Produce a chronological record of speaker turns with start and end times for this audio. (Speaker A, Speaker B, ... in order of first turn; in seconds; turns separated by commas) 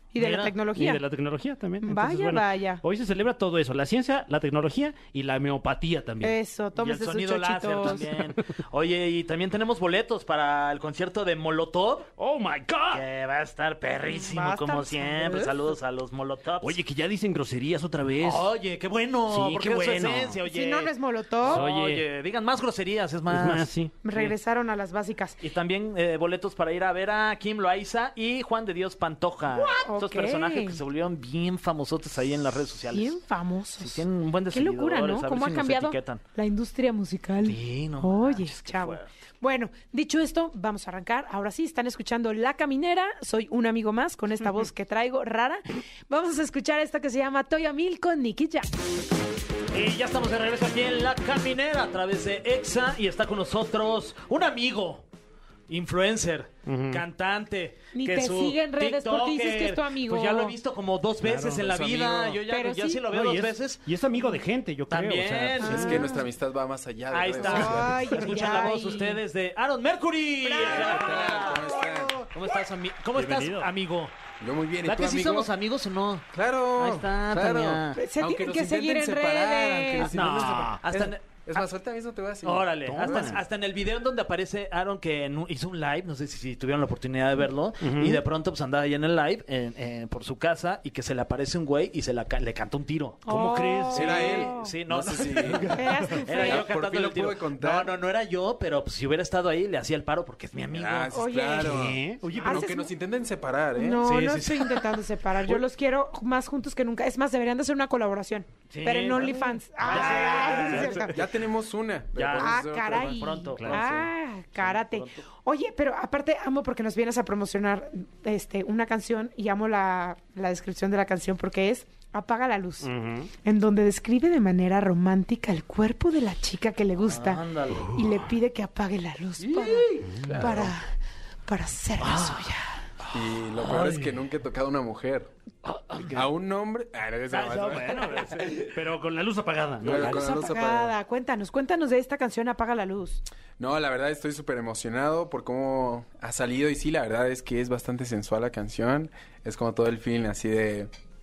Speaker A: 0.1-1.0, Speaker B: 0.2-0.5, Speaker C: 0.7-6.4, Speaker A: 1.8-2.8, Speaker A: 6.2-8.1, Speaker B: 6.8-12.1, Speaker C: 12.2-13.0, Speaker B: 12.9-16.8, Speaker A: 14.1-15.6, Speaker C: 16.6-18.5, Speaker B: 18.2-24.3, Speaker C: 19.3-20.4, Speaker A: 20.4-21.7, Speaker C: 21.4-22.0, Speaker C: 23.3-23.9, Speaker A: 24.0-25.4, Speaker B: 25.4-33.2, Speaker A: 29.5-30.8, Speaker A: 32.9-48.7, Speaker B: 33.8-36.2, Speaker B: 37.4-39.1, Speaker B: 49.7-55.1, Speaker B: 55.7-63.8, Speaker C: 56.6-57.0, Speaker A: 57.9-60.5, Speaker C: 61.2-61.7, Speaker D: 61.6-62.4, Speaker A: 62.5-63.0, Speaker C: 63.1-66.1, Speaker B: 64.9-66.1, Speaker A: 65.6-66.2, Speaker D: 65.6-68.2, Speaker B: 67.1-74.1, Speaker A: 67.4-69.2, Speaker A: 70.4-71.9, Speaker D: 70.6-72.2, Speaker C: 73.2-73.7, Speaker D: 74.4-75.5, Speaker B: 74.8-78.0, Speaker D: 76.3-83.3, Speaker A: 78.0-80.1, Speaker C: 80.1-80.8, Speaker B: 80.1-81.2, Speaker B: 82.4-93.2, Speaker C: 82.9-83.4, Speaker C: 87.8-88.2, Speaker C: 93.2-94.5, Speaker A: 93.2-94.7, Speaker D: 93.9-95.8, Speaker B: 94.0-101.2, Speaker C: 95.4-96.2, Speaker A: 95.7-96.7, Speaker D: 96.3-97.9, Speaker D: 100.7-104.0, Speaker A: 101.1-102.9, Speaker C: 101.6-102.7, Speaker A: 103.8-111.2, Speaker B: 104.0-105.0, Speaker B: 108.7-111.1, Speaker C: 109.9-111.0, Speaker D: 110.8-113.2, Speaker B: 112.1-115.2, Speaker A: 112.4-122.9, Speaker C: 113.6-114.0, Speaker C: 122.8-123.3, Speaker A: 123.4-130.9, Speaker B: 127.0-128.0, Speaker C: 130.0-130.4, Speaker D: 130.1-130.7, Speaker A: 131.5-132.7, Speaker B: 132.0-132.4, Speaker D: 133.1-135.3, Speaker C: 133.6-134.0, Speaker C: 135.7-136.3, Speaker D: 136.0-138.6, Speaker C: 137.3-140.3, Speaker D: 139.8-140.9, Speaker A: 139.9-143.2, Speaker D: 143.6-150.9